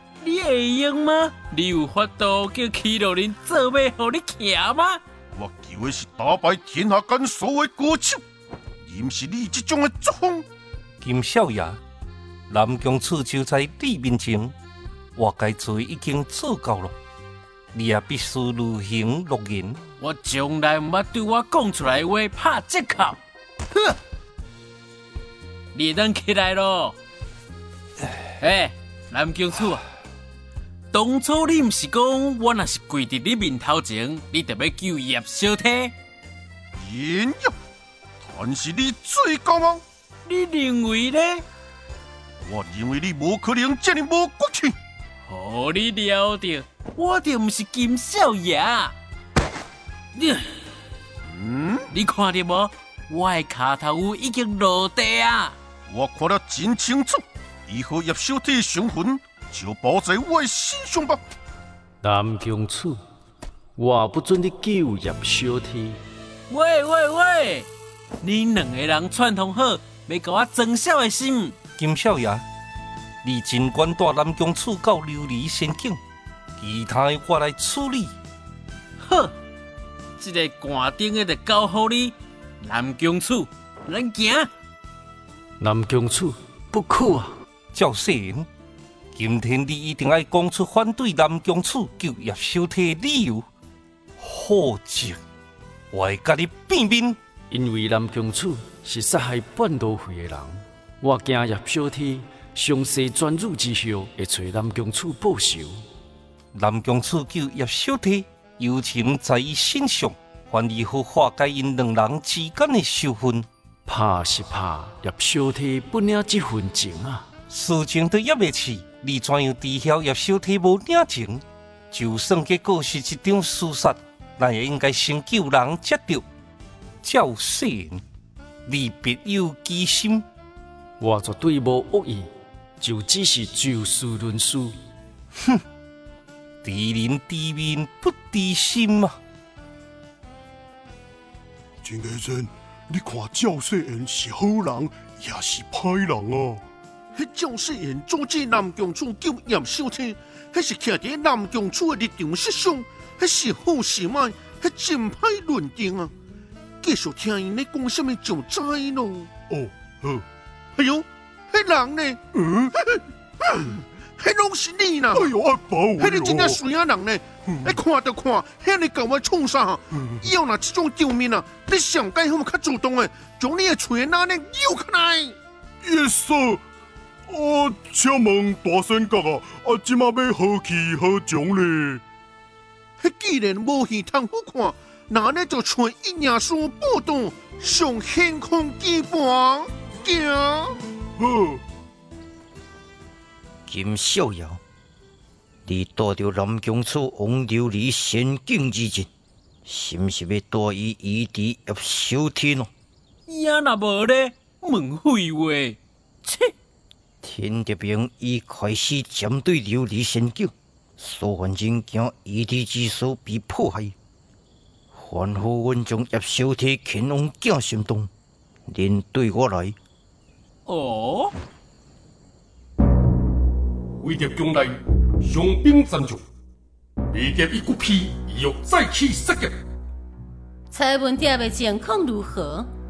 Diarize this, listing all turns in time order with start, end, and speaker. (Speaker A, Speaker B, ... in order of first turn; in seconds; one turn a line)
Speaker A: 0.2-5.0
Speaker B: 5.3-8.2
Speaker B: 8.8-10.4
Speaker C: 11.0-11.8
Speaker C: 12.5-14.5
Speaker C: 15.2-16.9
Speaker C: 17.7-19.8
Speaker A: 20.0-23.2
Speaker A: 25.7-26.9
Speaker A: 28.4-29.8
Speaker A: 30.9-35.9
Speaker B: 36.8-37.5
Speaker B: 38.2-39.8
Speaker A: 40.2-41.4
Speaker B: 42.4-44.7
Speaker A: 45.2-48.9
Speaker A: 50.1-50.5
Speaker B: 51.2-51.9
Speaker A: 51.9-55.5
Speaker B: 55.9-61.2
Speaker D: 62.0-63.0
Speaker D: 63.8-66.0
Speaker A: 66.5-67.7
Speaker A: 68.2-71.6
Speaker C: 71.8-72.4
Speaker C: 73.2-76.0
Speaker C: 76.6-78.1
Speaker A: 79.0-79.3
Speaker A: 80.2-84.5
Speaker D: 85.6-87.3
Speaker C: 87.7-88.5
Speaker C: 89.1-93.5
Speaker C: 94.2-95.2
Speaker C: 95.9-97.2
Speaker D: 97.5-105.8
Speaker C: 106.5-113.5
Speaker D: 113.8-117.3
Speaker C: 117.5-126.2
Speaker C: 127.0-128.0
Speaker C: 128.6-130.2
Speaker D: 131.0-134.8
Speaker C: 136.6-139.2
Speaker E: 141.8-146.6
Speaker B: 147.1-156.1
Speaker B: 156.8-159.3
Speaker E: 159.5-160.2
Speaker B: 160.8-162.2
Speaker E: 162.3-162.7
Speaker B: 164.2-165.3
Speaker E: 165.1-166.6
Speaker B: 166.0-175.4
Speaker E: 167.5-167.8
Speaker E: 169.9-170.2
Speaker E: 175.8-176.6
Speaker E: 177.3-182.0
Speaker B: 183.0-190.8
Speaker E: 191.2-191.6
Speaker F: 193.7-194.6
Speaker F: 195.7-199.1
Speaker F: 199.6-202.7
Speaker A: 203.3-206.5
Speaker F: 207.2-213.9
Speaker F: 214.9-218.1
Speaker F: 218.7-219.8
Speaker A: 220.7-221.3
Speaker G: 224.0-226.2
Speaker G: 227.1-229.6
Speaker H: 230.7-232.7